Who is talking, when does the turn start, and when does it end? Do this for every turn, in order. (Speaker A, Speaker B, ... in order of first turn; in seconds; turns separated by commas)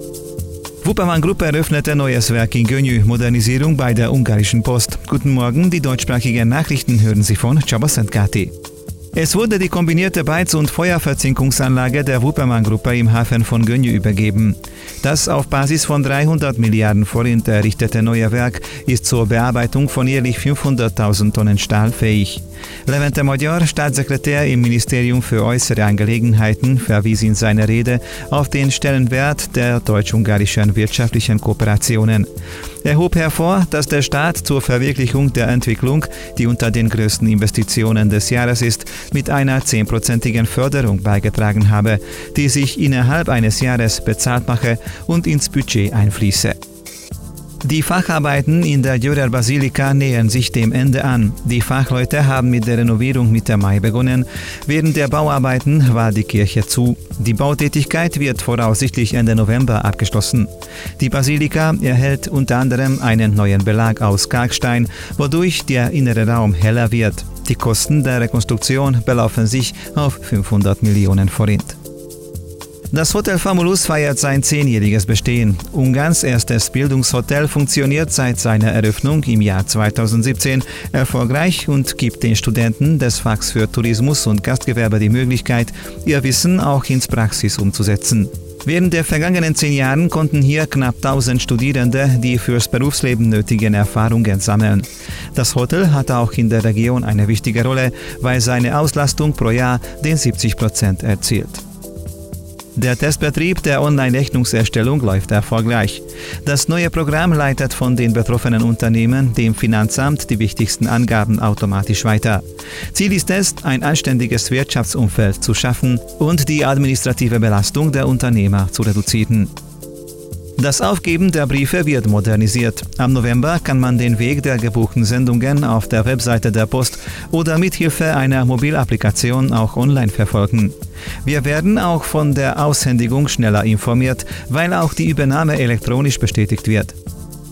Speaker A: 0.8-8.5, Speaker A: 9.1-32.3, Speaker A: 32.8-46.6, Speaker A: 47.6-71.8, Speaker A: 72.9-101.6, Speaker A: 102.8-119.5, Speaker A: 120.6-137.0